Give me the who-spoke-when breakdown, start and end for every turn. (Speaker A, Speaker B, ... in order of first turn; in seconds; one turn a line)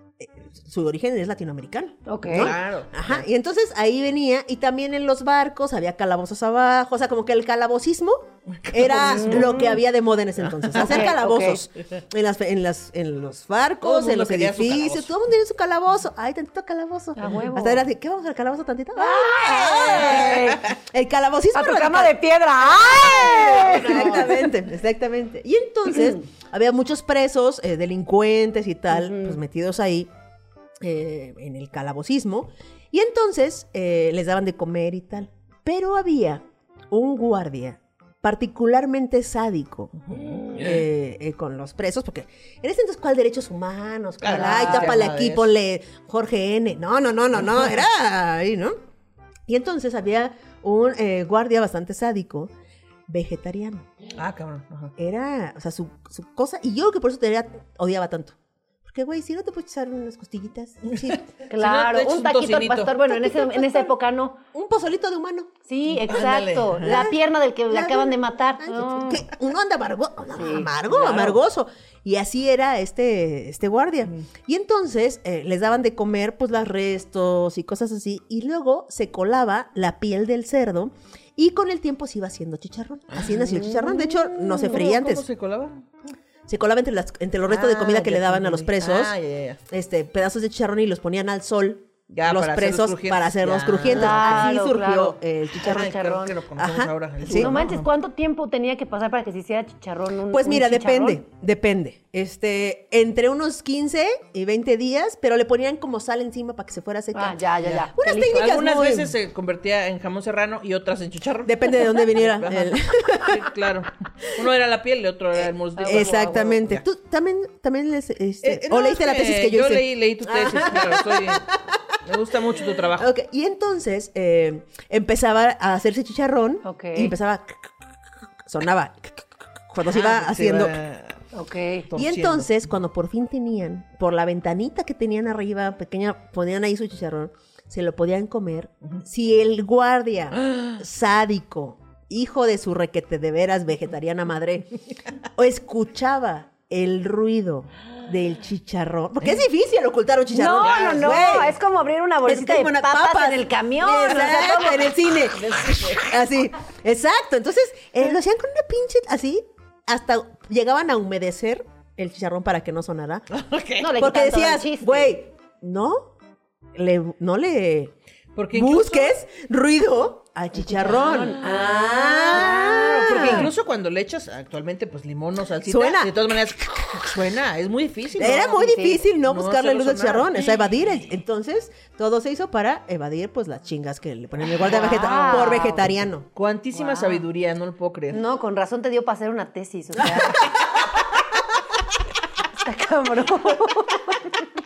Speaker A: 0.2-22.2
Speaker B: 2.1-2.5
Speaker C: 2.3-3.2
Speaker C: 8.6-9.5
Speaker B: 8.9-9.8
Speaker C: 10.5-11.0
Speaker B: 10.7-11.6
Speaker C: 13.8-15.1
Speaker B: 17.1-17.8
Speaker B: 19.0-20.7
Speaker B: 21.5-24.5
Speaker A: 22.9-30.1
Speaker C: 23.0-24.4
Speaker B: 25.9-26.2
Speaker B: 28.9-29.4
Speaker A: 30.8-48.7
Speaker C: 40.1-40.8
Speaker C: 44.2-45.5
Speaker B: 44.3-45.0
Speaker A: 49.5-52.5
Speaker A: 53.1-53.9
Speaker C: 54.1-54.9
Speaker A: 55.0-61.2
Speaker C: 60.9-63.0
Speaker B: 61.5-64.4
Speaker A: 63.1-63.9
Speaker A: 64.5-65.5
Speaker B: 65.7-69.3
Speaker C: 66.0-67.0
Speaker A: 66.8-67.2
Speaker A: 67.7-85.2
Speaker B: 70.3-70.8
Speaker C: 70.9-71.3
Speaker C: 83.1-85.9
Speaker A: 86.5-89.1
Speaker C: 87.5-89.6
Speaker A: 89.7-95.9
Speaker C: 92.1-94.5
Speaker B: 93.8-96.4
Speaker C: 95.5-97.9
Speaker A: 96.6-97.5
Speaker B: 97.2-101.2
Speaker A: 100.3-107.4
Speaker B: 107.1-108.5
Speaker C: 107.7-116.8
Speaker A: 107.9-109.1
Speaker A: 111.5-113.5
Speaker A: 115.4-121.6
Speaker B: 115.8-116.5
Speaker C: 118.4-123.1
Speaker A: 123.0-127.7
Speaker B: 126.6-127.1
Speaker A: 128.4-130.8
Speaker C: 129.9-131.2
Speaker B: 131.3-131.9
Speaker C: 131.9-132.5
Speaker A: 131.9-144.8
Speaker C: 140.4-140.8
Speaker A: 145.3-151.6
Speaker B: 150.3-155.9
Speaker C: 150.6-151.4
Speaker A: 152.2-163.2
Speaker C: 155.6-156.1
Speaker C: 163.3-163.9
Speaker B: 163.8-165.2
Speaker A: 163.9-166.1
Speaker A: 166.7-167.9
Speaker C: 168.3-169.2
Speaker A: 168.5-173.5
Speaker B: 170.6-173.4
Speaker C: 171.4-178.5
Speaker A: 175.6-176.1
Speaker A: 178.2-186.3
Speaker B: 178.3-179.1
Speaker C: 179.2-180.4
Speaker B: 184.6-185.9
Speaker C: 186.3-188.2
Speaker B: 186.7-187.2
Speaker B: 188.1-190.7
Speaker A: 190.2-190.6
Speaker B: 192.5-194.4